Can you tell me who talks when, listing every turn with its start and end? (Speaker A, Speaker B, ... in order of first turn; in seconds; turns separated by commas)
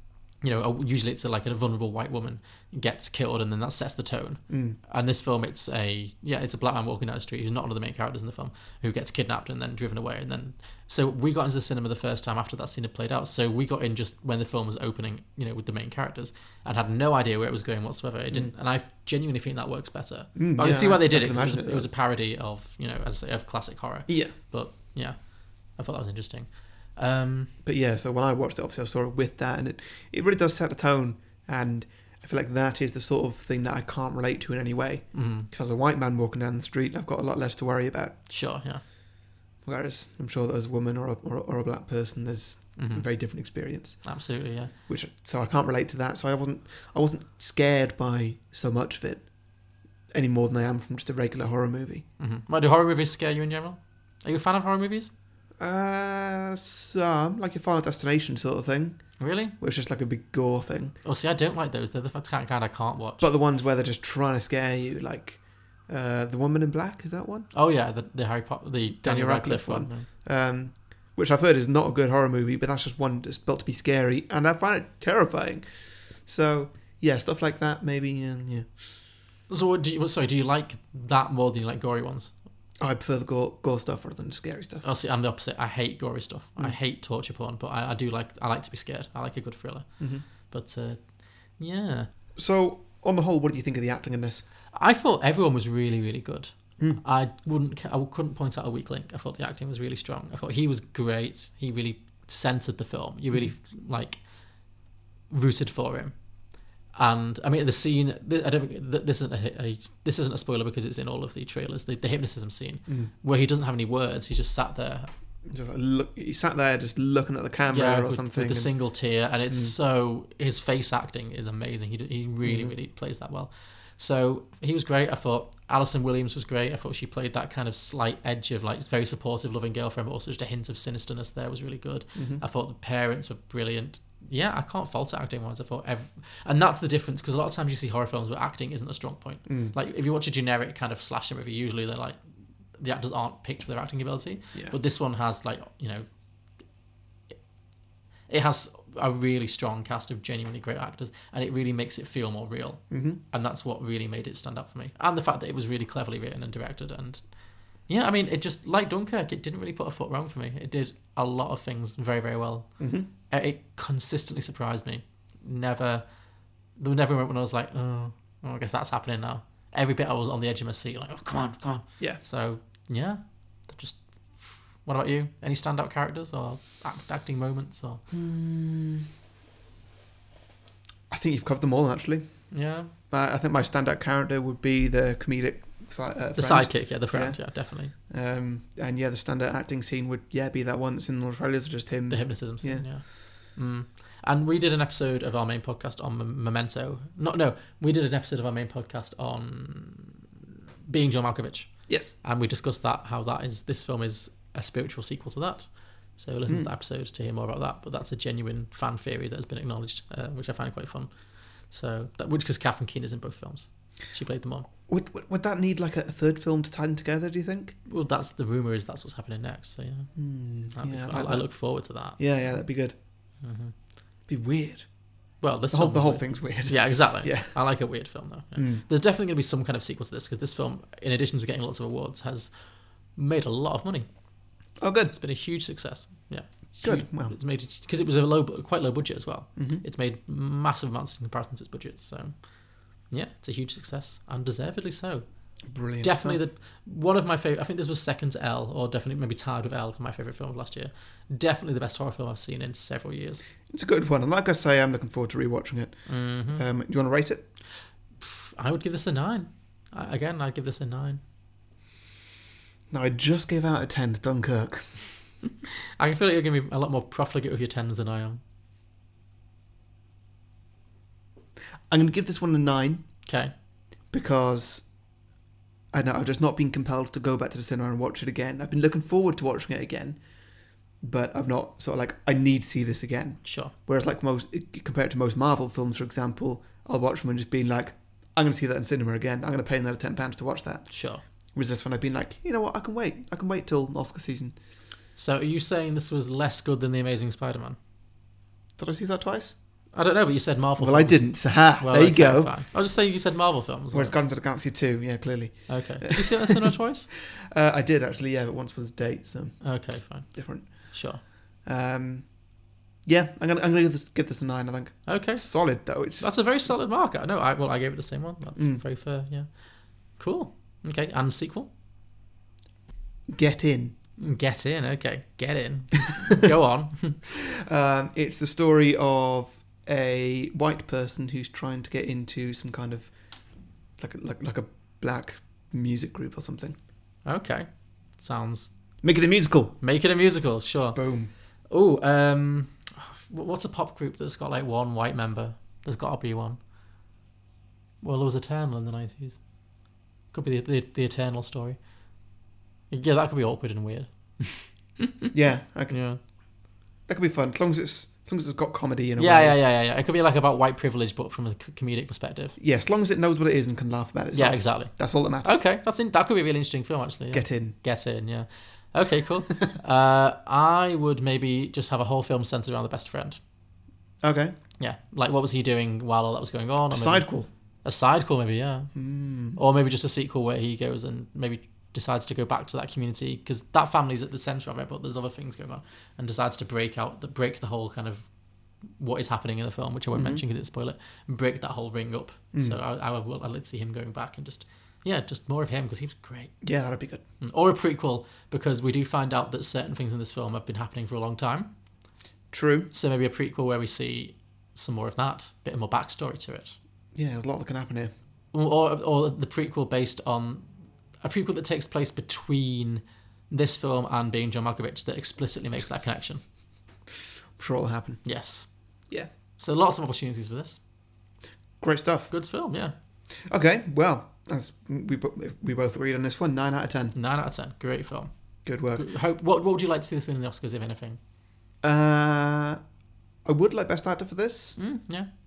Speaker A: 0.4-27.5, Speaker B: 4.5-4.8, Speaker B: 20.4-21.9, Speaker B: 24.1-24.4, Speaker B: 27.6-38.3, Speaker A: 35.1-35.5, Speaker A: 38.3-38.8, Speaker B: 39.6-52.0, Speaker A: 42.8-43.1, Speaker A: 44.0-44.7, Speaker A: 52.2-55.1, Speaker B: 55.6-61.0, Speaker A: 59.2-59.6, Speaker A: 61.0-63.3, Speaker B: 63.2-67.5, Speaker A: 67.5-70.1, Speaker B: 69.0-78.8, Speaker A: 79.5-82.4, Speaker B: 82.8-84.9, Speaker A: 84.8-92.1, Speaker B: 90.0-90.2, Speaker B: 92.4-94.5, Speaker A: 94.7-106.2, Speaker A: 106.7-115.1, Speaker B: 112.9-113.1, Speaker B: 115.5-119.8, Speaker A: 117.7-142.2, Speaker B: 122.4-122.8, Speaker B: 132.2-132.4, Speaker B: 139.5-139.8, Speaker A: 142.8-146.1, Speaker A: 148.3-166.2, Speaker B: 152.9-153.2, Speaker B: 162.8-163.1, Speaker A: 166.8-178.0, Speaker B: 178.1-179.1, Speaker B: 181.1-192.9, Speaker A: 182.5-182.9, Speaker A: 186.3-187.9, Speaker A: 192.1-214.7, Speaker B: 201.9-202.1, Speaker B: 206.5-206.7, Speaker B: 214.9-217.8, Speaker A: 217.9-222.6, Speaker B: 220.2-223.0, Speaker A: 223.4-223.7, Speaker B: 224.3-225.0, Speaker A: 225.4-234.1, Speaker B: 225.7-228.8, Speaker B: 234.8-235.2, Speaker A: 235.1-253.5, Speaker B: 236.8-237.4, Speaker B: 239.6-239.8, Speaker B: 245.7-246.5, Speaker B: 253.7-257.4, Speaker A: 256.1-256.6, Speaker A: 258.2-261.2, Speaker B: 262.9-265.0, Speaker A: 266.0-268.4, Speaker B: 271.9-273.0, Speaker A: 273.2-273.5, Speaker B: 274.1-274.9, Speaker B: 275.9-280.2, Speaker B: 281.0-294.6, Speaker A: 283.4-283.7, Speaker A: 290.9-291.2, Speaker A: 295.1-297.8, Speaker B: 298.8-299.6, Speaker A: 299.9-304.2, Speaker B: 300.8-302.6, Speaker B: 303.9-306.6, Speaker A: 305.7-307.1, Speaker B: 307.3-316.7, Speaker A: 309.6-311.2, Speaker A: 315.1-321.7, Speaker B: 318.6-318.8, Speaker B: 323.3-323.9, Speaker A: 324.2-327.2, Speaker B: 327.6-333.4, Speaker B: 334.0-336.8, Speaker A: 337.2-338.7, Speaker B: 339.0-339.8, Speaker A: 339.8-346.6, Speaker B: 340.9-341.3, Speaker A: 348.0-351.9, Speaker A: 352.9-354.9, Speaker B: 355.3-356.1, Speaker A: 355.9-356.2, Speaker B: 357.1-359.6, Speaker A: 359.2-362.6, Speaker B: 362.6-365.6, Speaker A: 364.3-373.4, Speaker B: 367.3-367.8, Speaker B: 374.2-374.6, Speaker A: 374.8-388.3, Speaker B: 376.9-377.5, Speaker B: 378.9-379.6, Speaker A: 388.8-396.6, Speaker B: 390.1-390.4, Speaker B: 396.6-397.2, Speaker A: 397.4-401.7, Speaker B: 402.5-402.9, Speaker A: 402.9-406.8, Speaker B: 407.1-408.1, Speaker A: 408.5-410.7, Speaker A: 411.2-416.4, Speaker B: 417.6-418.4, Speaker A: 418.2-420.8, Speaker B: 421.8-422.4, Speaker A: 422.3-422.9, Speaker B: 423.4-427.2, Speaker A: 427.1-431.2, Speaker B: 428.6-429.1, Speaker B: 431.8-432.8, Speaker B: 433.4-434.8, Speaker A: 434.8-435.3